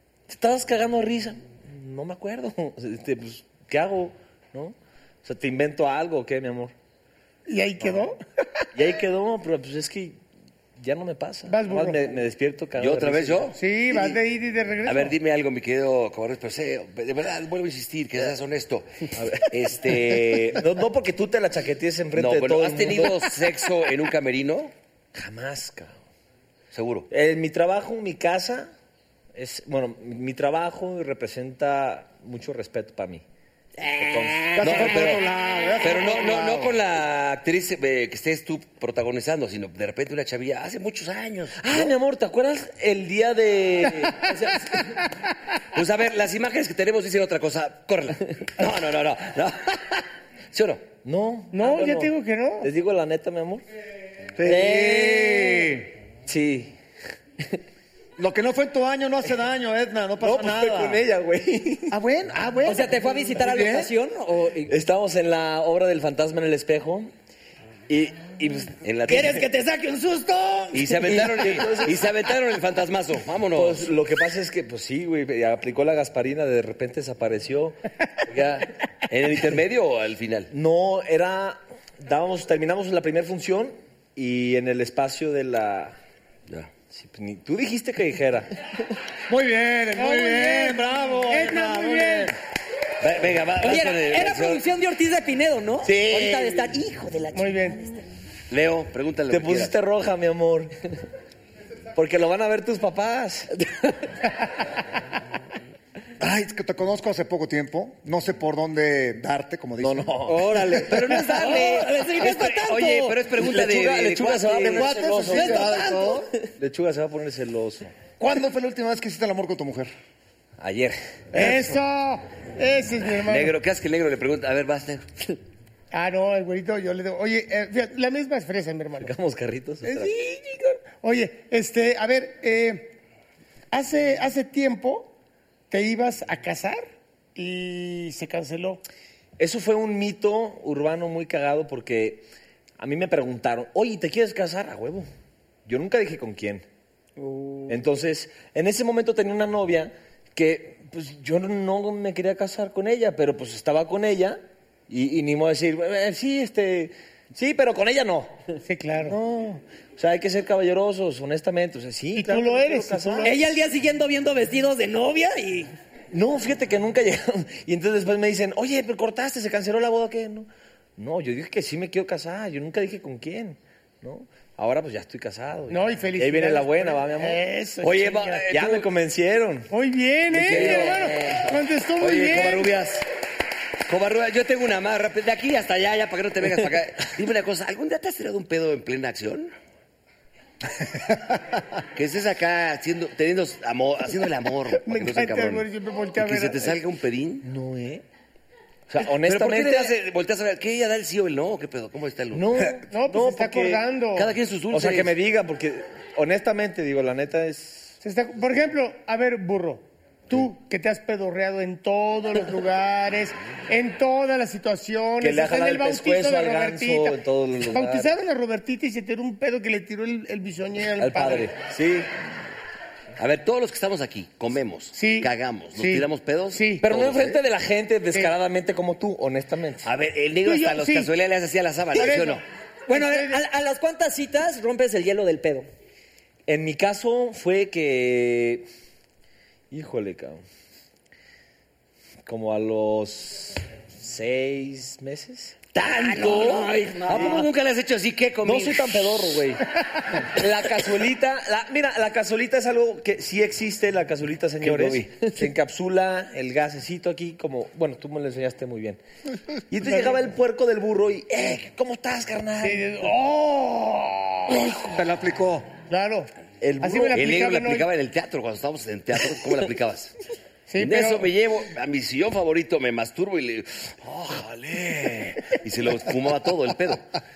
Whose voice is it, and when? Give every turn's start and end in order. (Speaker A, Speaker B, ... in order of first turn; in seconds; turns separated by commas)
Speaker A: 0.3-6.7, Speaker B: 7.5-8.2, Speaker A: 8.7-10.2, Speaker A: 10.8-13.5, Speaker B: 11.5-12.1, Speaker C: 12.8-14.1, Speaker B: 13.5-15.2, Speaker C: 14.8-20.6, Speaker A: 19.1-23.4, Speaker C: 22.1-24.7, Speaker A: 25.1-25.9, Speaker C: 26.7-27.1, Speaker A: 27.1-28.7, Speaker A: 29.3-33.2, Speaker D: 33.8-34.8, Speaker A: 34.0-35.2, Speaker E: 34.6-36.7, Speaker C: 34.6-35.2, Speaker C: 35.8-41.9, Speaker A: 41.5-44.7, Speaker C: 45.7-50.9, Speaker A: 51.0-53.6, Speaker B: 51.5-52.7, Speaker E: 54.4-55.9, Speaker D: 54.4-55.6, Speaker A: 56.2-56.7, Speaker E: 58.2-61.0, Speaker A: 60.2-62.0, Speaker E: 61.9-63.9, Speaker D: 62.6-64.7, Speaker A: 64.7-67.1, Speaker A: 67.9-68.8, Speaker C: 68.8-69.4, Speaker D: 69.1-70.9, Speaker C: 70.7-73.9, Speaker A: 71.0-72.0, Speaker A: 73.5-78.7, Speaker C: 79.1-80.5, Speaker A: 80.5-86.0, Speaker A: 86.9-88.5, Speaker E: 89.3-92.3, Speaker B: 90.0-92.3, Speaker C: 93.0-94.6, Speaker D: 93.6-97.6, Speaker C: 95.9-96.3, Speaker B: 97.3-97.8, Speaker C: 98.5-99.7, Speaker A: 99.3-100.7, Speaker A: 101.9-103.5, Speaker E: 106.2-110.4, Speaker A: 109.8-111.3, Speaker D: 110.3-113.2, Speaker C: 110.8-115.0, Speaker A: 113.3-115.8, Speaker E: 114.6-116.3, Speaker D: 115.2-116.2, Speaker A: 116.6-117.9, Speaker E: 118.2-119.9, Speaker A: 120.6-121.5, Speaker B: 121.3-123.6, Speaker C: 123.2-125.3, Speaker B: 125.9-129.1, Speaker A: 129.0-130.1, Speaker B: 129.8-132.9, Speaker B: 133.7-135.1, Speaker B: 135.7-138.8, Speaker A: 139.4-142.2, Speaker A: 142.8-145.1, Speaker A: 145.7-146.6, Speaker D: 147.2-147.7, Speaker A: 147.7-158.3, Speaker B: 158.6-159.2, Speaker A: 159.0-163.3, Speaker B: 162.1-163.4, Speaker D: 163.2-165.7, Speaker A: 166.1-177.4, Speaker B: 175.7-178.4, Speaker C: 177.8-178.9, Speaker A: 178.5-179.7, Speaker B: 179.7-182.8, Speaker C: 180.3-181.4, Speaker A: 180.3-181.1, Speaker C: 182.0-183.0, Speaker C: 183.9-189.5, Speaker C: 191.9-197.4, Speaker B: 194.7-196.8, Speaker A: 197.4-198.0, Speaker A: 198.9-199.9, Speaker C: 199.0-202.7, Speaker A: 202.3-203.8, Speaker B: 202.9-204.3, Speaker C: 204.1-205.1, Speaker A: 204.7-208.0, Speaker B: 208.0-221.5, Speaker A: 215.2-218.1, Speaker A: 221.0-222.1, Speaker C: 223.2-227.4, Speaker B: 224.9-226.8, Speaker A: 226.8-229.9, Speaker C: 229.8-232.4, Speaker B: 230.4-231.1, Speaker B: 231.9-233.4, Speaker D: 232.9-235.7, Speaker A: 236.5-238.7, Speaker A: 239.7-240.4, Speaker A: 242.2-245.6, Speaker C: 245.7-249.0, Speaker D: 245.9-247.4, Speaker A: 247.1-247.5, Speaker A: 248.4-259.0, Speaker C: 254.6-255.1, Speaker A: 259.7-263.1, Speaker B: 259.8-260.2, Speaker B: 262.6-264.7, Speaker E: 264.8-265.7, Speaker B: 265.9-266.3, Speaker A: 266.6-267.2, Speaker B: 266.8-267.9, Speaker C: 267.1-270.1, Speaker B: 270.7-271.3, Speaker C: 270.8-277.0